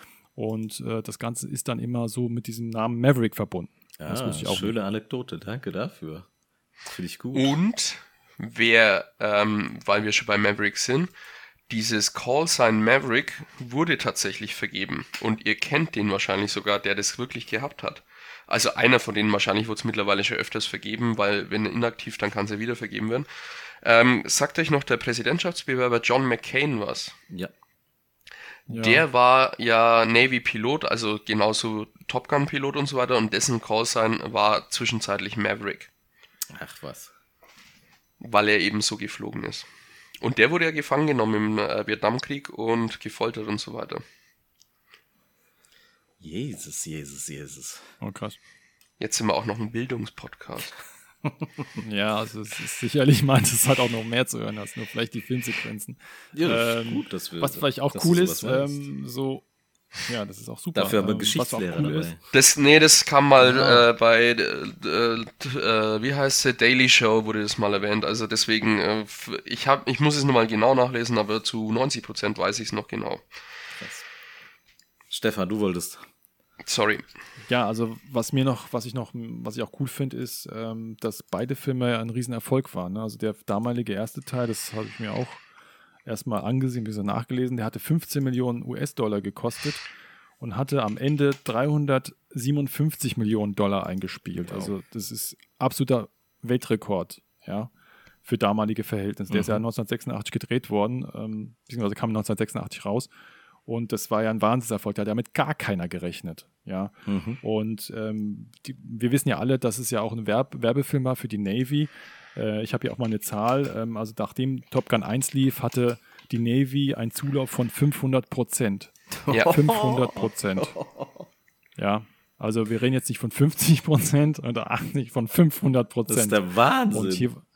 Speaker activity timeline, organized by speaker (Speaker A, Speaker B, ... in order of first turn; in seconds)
Speaker A: 0.3-4.8, 28.7-29.0, 48.0-48.4, 51.8-59.5, 60.1-62.1, 63.4-63.9, 77.5-85.5, 86.1-89.9, 90.4-97.7, 98.2-103.1, 103.7-120.8, 121.8-127.4
Speaker B: 4.0-6.3, 6.9-7.5, 36.5-37.1, 46.2-47.9, 51.2-51.6, 56.3-58.8, 60.8-62.2, 73.8-74.1, 75.1-76.0, 94.5-94.7, 99.3-99.6, 107.1-107.4, 119.2-121.3, 126.1-127.3
Speaker C: 7.3-11.1, 11.7-23.3, 23.8-27.1, 28.7-35.9, 38.2-39.7, 40.2-44.0, 49.0-50.8, 62.3-73.2, 76.6-77.0, 119.3-119.6